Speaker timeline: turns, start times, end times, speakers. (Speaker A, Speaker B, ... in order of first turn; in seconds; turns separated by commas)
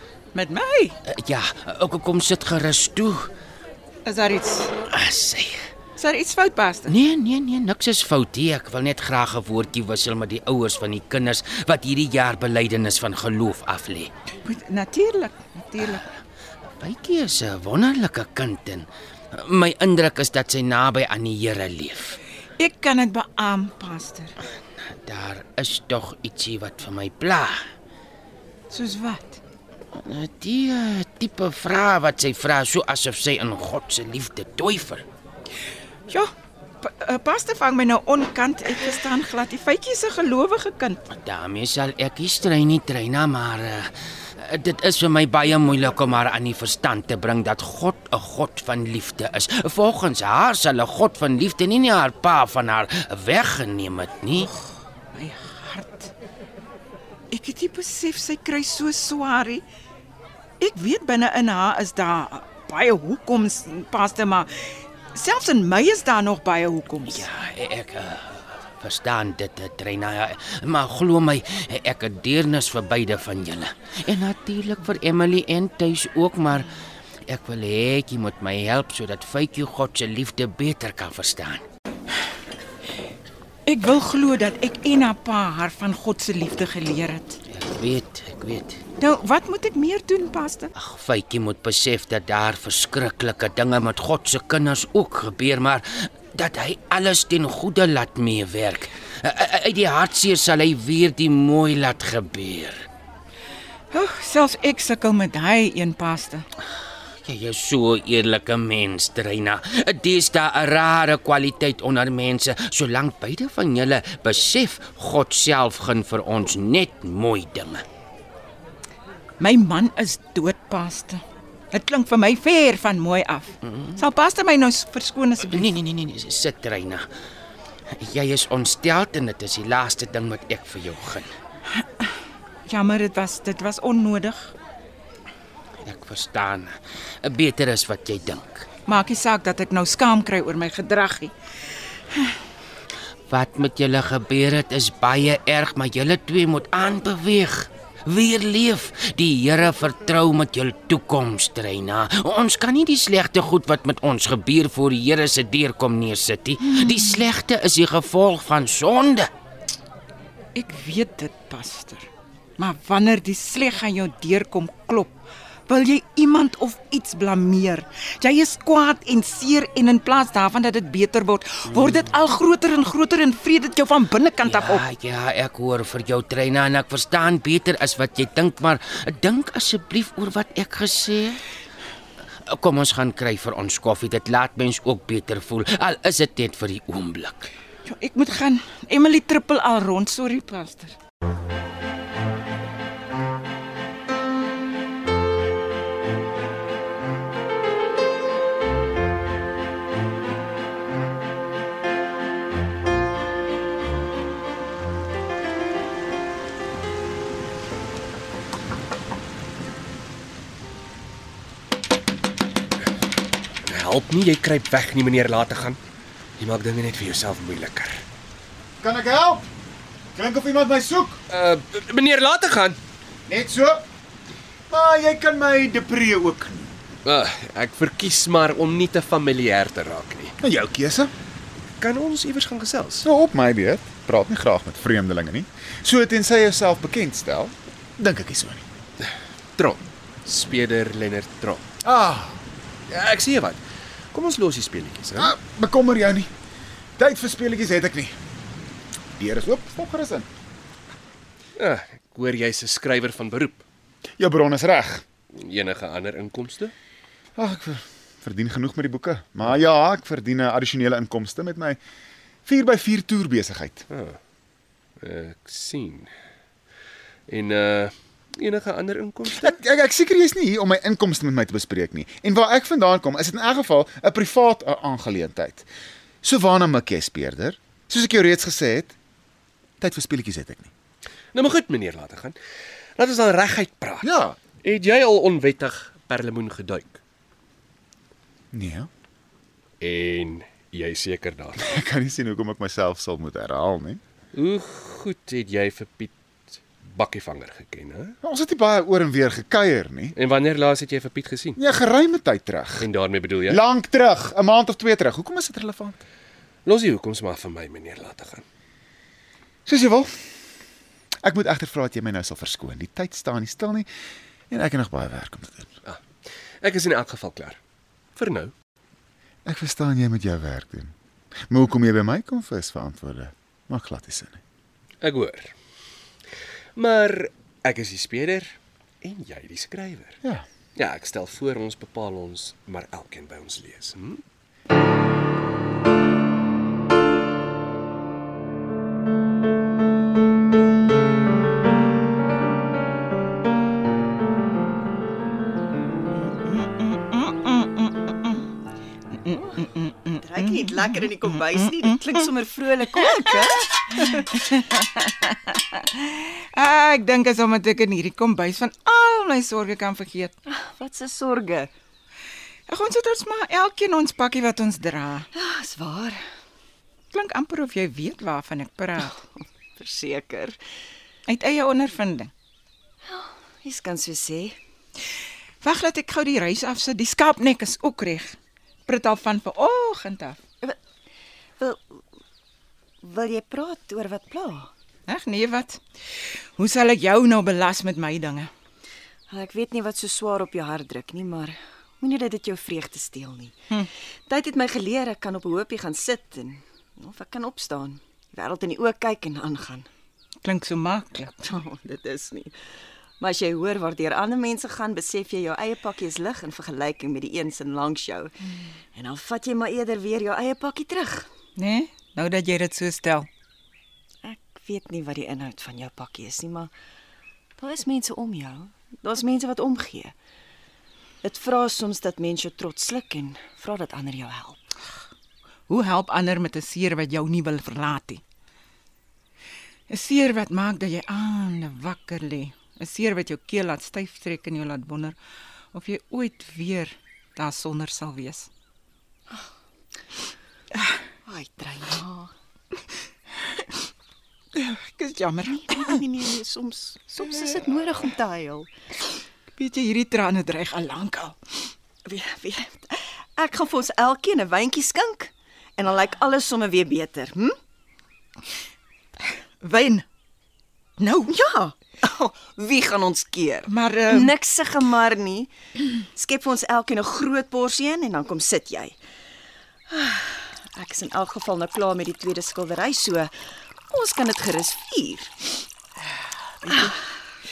Speaker A: 0.3-1.0, Speaker B: 1.1-3.3, Speaker A: 4.0-4.7, Speaker B: 4.9-5.6, Speaker A: 6.0-6.9, Speaker B: 6.9-14.1, Speaker A: 14.4-16.1, Speaker B: 16.8-22.2, Speaker A: 22.6-24.3, Speaker B: 24.9-27.6, Speaker A: 28.7-29.4, Speaker B: 29.9-35.0, Speaker A: 36.1-41.0, Speaker B: 41.1-54.5, Speaker A: 55.1-56.1, Speaker A: 57.3-59.6, Speaker A: 60.6-67.3, Speaker B: 67.1-76.7, Speaker B: 77.3-81.6, Speaker A: 83.7-87.4, Speaker B: 87.5-88.8, Speaker A: 89.0-90.7, Speaker B: 90.8-102.8, Speaker A: 103.9-106.5, Speaker B: 107.2-117.8, Speaker A: 119.4-121.2, Speaker A: 121.7-125.7, Speaker B: 123.6-124.0, Speaker B: 125.4-127.1, Speaker B: 128.0-131.3, Speaker A: 131.7-132.1, Speaker A: 132.7-134.5, Speaker B: 135.8-138.7, Speaker A: 138.9-141.3, Speaker B: 143.3-159.3, Speaker A: 156.8-157.2, Speaker A: 160.6-174.8, Speaker B: 174.4-181.4, Speaker B: 182.5-187.5, Speaker A: 187.8-190.9, Speaker C: 213.6-215.8, Speaker C: 216.4-218.0, Speaker D: 218.8-219.5, Speaker D: 220.2-221.2, Speaker C: 221.3-222.8, Speaker D: 223.3-223.8, Speaker D: 224.7-226.7, Speaker C: 227.1-230.3, Speaker D: 230.4-231.1, Speaker C: 231.8-233.1, Speaker D: 233.0-238.7, Speaker C: 239.6-241.6, Speaker D: 241.8-242.4, Speaker C: 242.9-243.6, Speaker C: 244.1-245.3, Speaker D: 245.2-246.3, Speaker D: 247.0-248.2, Speaker D: 249.2-250.3, Speaker C: 251.6-253.6, Speaker D: 254.2-255.0, Speaker C: 255.3-256.7, Speaker D: 257.4-261.8, Speaker D: 262.5-263.9, Speaker C: 263.9-264.2, Speaker C: 265.0-266.1, Speaker C: 267.3-269.6, Speaker D: 269.3-275.7, Speaker D: 276.2-279.0, Speaker D: 279.8-280.7, Speaker C: 281.3-282.4, Speaker C: 283.0-284.1, Speaker D: 284.0-284.4, Speaker C: 284.6-287.0, Speaker D: 288.5-288.9, Speaker C: 289.8-291.6, Speaker D: 291.6-294.0, Speaker C: 294.4-296.1, Speaker C: 296.8-298.1, Speaker D: 298.2-300.1, Speaker C: 300.2-301.6, Speaker D: 301.6-302.9, Speaker C: 302.8-303.6, Speaker D: 303.5-306.0, Speaker C: 306.7-308.4, Speaker D: 309.7-310.1, Speaker D: 311.2-313.9, Speaker D: 314.5-315.7, Speaker C: 316.6-317.6, Speaker C: 318.2-318.5, Speaker D: 319.4-320.9, Speaker D: 321.5-324.4, Speaker C: 325.0-325.5, Speaker C: 326.8-330.2, Speaker C: 330.8-334.2, Speaker A: 346.1-348.5, Speaker A: 349.1-352.2, Speaker E: 350.2-354.1, Speaker A: 353.0-360.3, Speaker E: 360.5-361.7, Speaker A: 362.7-365.3, Speaker E: 365.3-366.2, Speaker A: 367.1-369.2, Speaker E: 369.8-370.6, Speaker A: 371.3-372.3, Speaker E: 373.0-374.6, Speaker A: 375.6-380.4, Speaker E: 381.6-382.0, Speaker E: 383.0-384.7, Speaker A: 385.1-385.8, Speaker A: 386.6-388.5, Speaker E: 389.3-393.6, Speaker E: 394.3-399.9, Speaker A: 400.4-401.5, Speaker E: 401.5-402.6, Speaker E: 403.2-411.3, Speaker A: 411.6-413.3, Speaker E: 414.2-416.7, Speaker E: 417.6-420.1, Speaker E: 421.2-424.6, Speaker A: 425.7-428.2, Speaker A: 429.9-435.2, Speaker A: 435.7-438.5, Speaker E: 441.2-442.3, Speaker A: 444.6-446.0, Speaker E: 445.5-448.7, Speaker A: 449.5-451.4, Speaker E: 452.1-457.5, Speaker A: 459.6-460.1, Speaker A: 461.0-461.3, Speaker E: 461.3-465.5, Speaker A: 463.7-464.3, Speaker E: 466.0-469.0, Speaker E: 469.9-473.3, Speaker E: 473.9-475.5, Speaker A: 476.6-476.9